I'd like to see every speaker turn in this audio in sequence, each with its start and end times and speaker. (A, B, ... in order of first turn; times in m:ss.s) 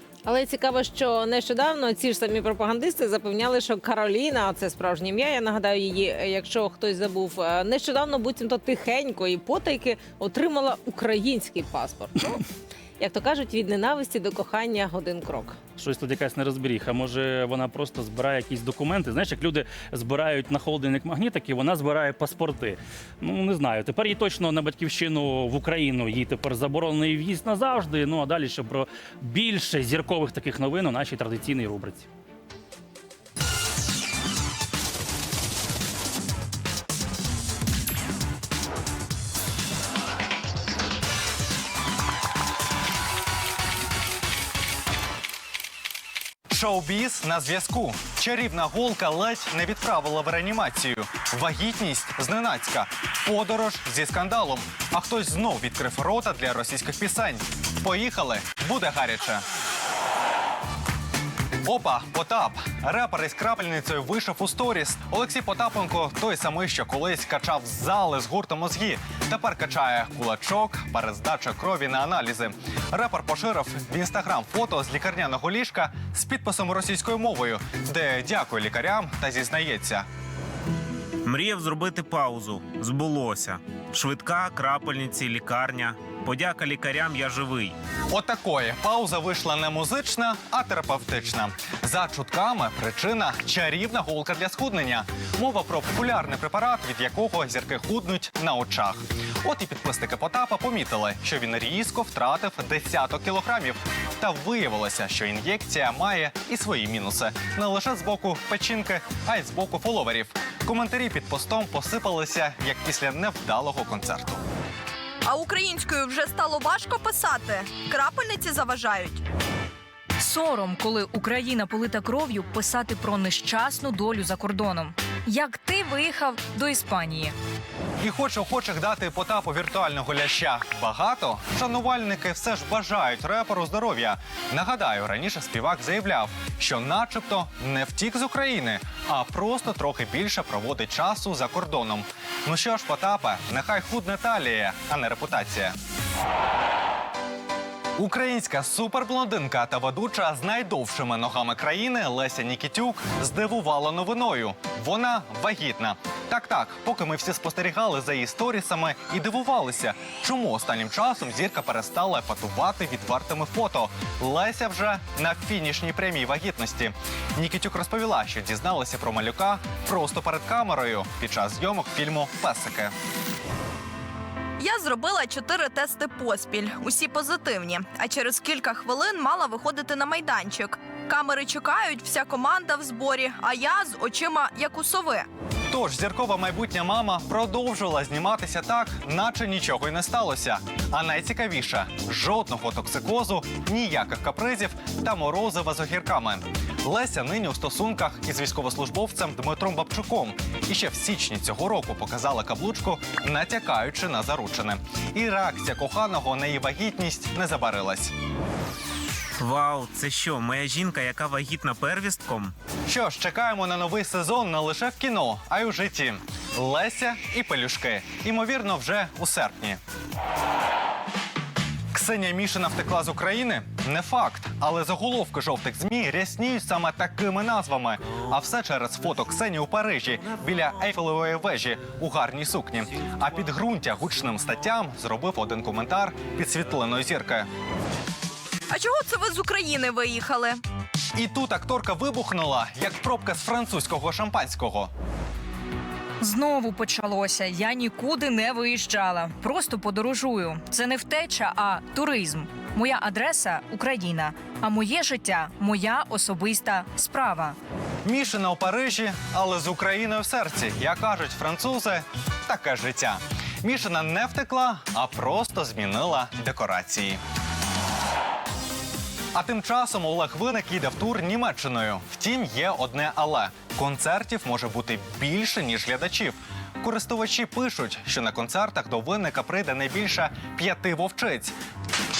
0:00.2-0:12.4 A
0:13.0-0:15.6 A
0:15.8-0:32.1 B
0:46.5-0:59.4 C
1:01.6-1:20.0 C
1:21.2-1:27.8 D
1:28.1-1:54.4 C
1:55.2-1:59.2 E
2:00.2-2:07.3 F
2:08.0-2:25.7 C
2:28.0-2:52.9 C
2:54.6-3:05.3 E
3:05.7-3:28.1 C
3:29.4-3:32.5 D
3:32.9-3:39.8 C
3:41.9-3:57.5 C
3:58.7-4:00.6 E
4:01.1-4:04.9 C
4:06.2-4:17.6 F
4:18.0-4:27.2 C
4:29.3-4:41.5 C